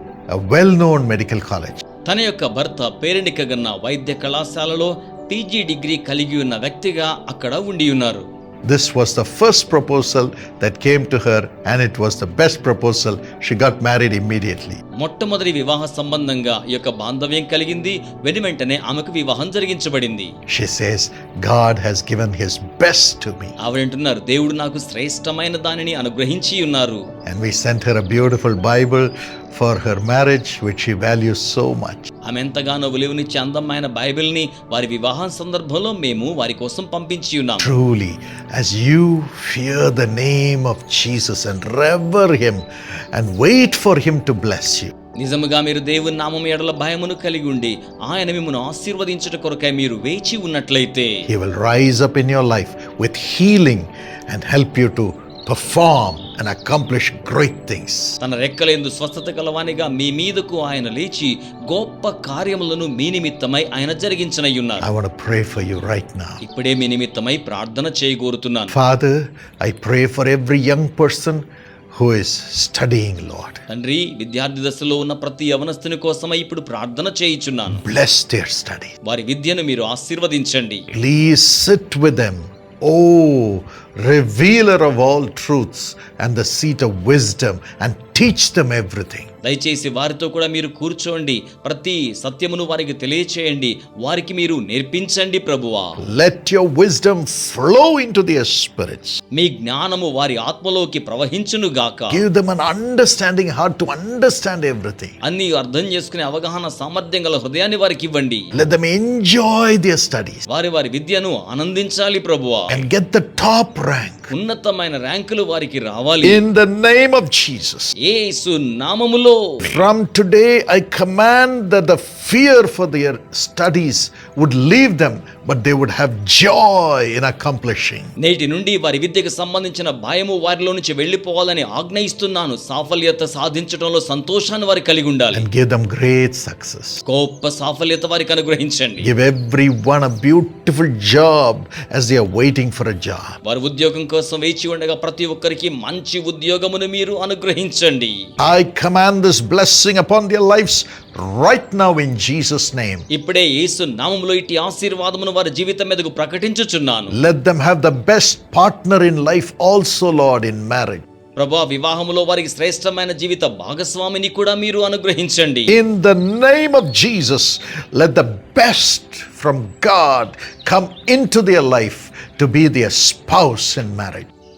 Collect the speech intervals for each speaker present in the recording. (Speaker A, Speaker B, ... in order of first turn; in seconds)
Speaker A: 0.3-1.8, 8.6-14.8, 20.5-23.5, 27.2-32.1, 37.6-44.9, 51.2-58.2, 64.8-66.4, 68.7-71.4, 71.9-73.6, 77.7-78.9, 80.9-89.3, 96.0-99.2, 102.1-105.1, 108.5-110.5, 112.7-114.3, 116.2-117.9, 119.6-128.1, 135.3-137.0, 139.0-143.3, 148.4-153.0, 157.1-161.0, 165.7-174.3
Speaker B: 2.0-8.2, 15.0-20.3, 23.6-27.0, 32.2-37.7, 45.2-51.3, 58.2-64.9, 66.4-68.8, 73.7-77.8, 79.0-80.9, 89.4-96.0, 99.3-102.2, 105.2-108.5, 110.5-112.8, 114.3-116.4, 118.0-119.8, 128.2-135.4, 137.1-139.1, 143.4-148.2, 153.1-157.2, 161.4-165.8